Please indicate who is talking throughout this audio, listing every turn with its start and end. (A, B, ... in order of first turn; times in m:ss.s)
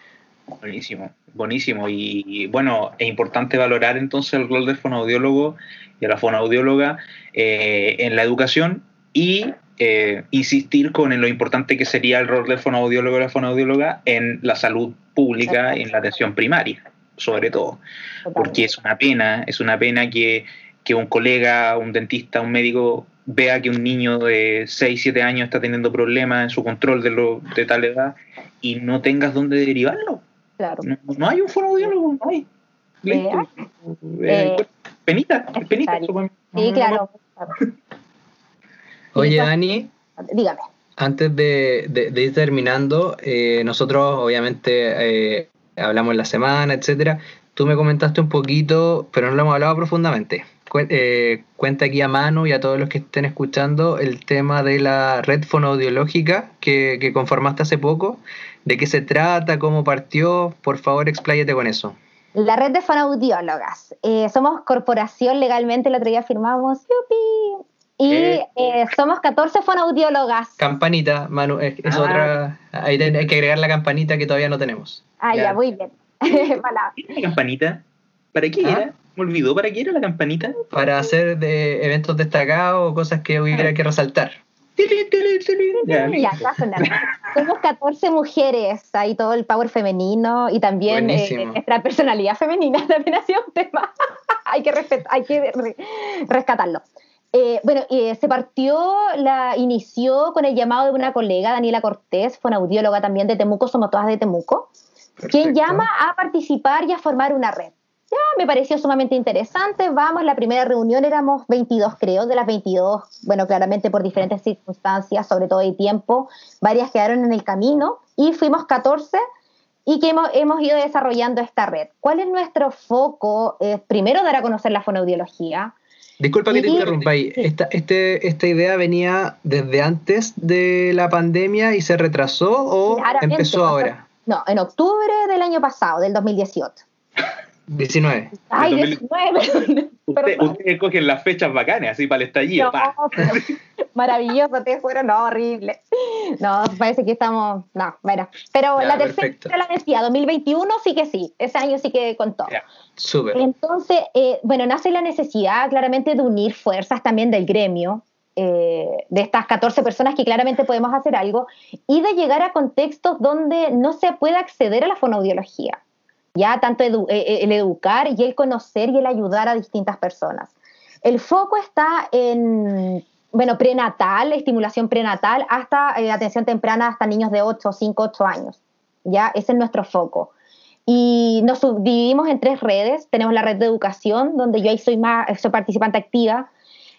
0:00.6-0:17.8 A
0:15.5-0:15.8 B
0:18.2-0:18.7 B
0:18.4-0:30.2 A
0:30.6-0:30.9 B
0:30.8-0:32.5 A
0:33.0-0:37.0 A
0:33.1-0:33.5 B
0:34.3-0:34.6 B
0:35.6-0:37.6 B
0:39.1-0:39.9 C
0:39.2-0:39.5 B
0:40.2-0:40.7 B
0:41.0-1:02.0 C
1:02.4-1:10.6 B
1:10.6-1:15.6 C
1:11.8-1:12.3 A
1:15.2-1:17.0 B
1:16.3-1:20.6 A
1:20.7-1:24.4 C
1:24.8-1:27.0 A
1:25.8-1:33.9 B
1:30.9-1:31.6 C
1:34.5-1:44.7 B
1:45.2-1:45.9 C
1:45.3-1:59.2 B
1:59.9-2:05.7 B
2:06.2-2:14.0 C
2:06.5-2:06.9 B
2:06.6-2:07.1 A
2:12.9-2:16.8 B
2:17.7-2:18.3 C
2:18.4-2:20.6 B
2:18.6-2:19.0 A
2:20.1-2:23.5 A
2:22.6-2:32.6 B
2:28.8-2:29.5 C
2:33.0-2:33.4 C
2:33.3-2:45.8 B
2:46.4-2:50.5 B
2:51.0-3:00.3 B
3:00.9-3:06.5 B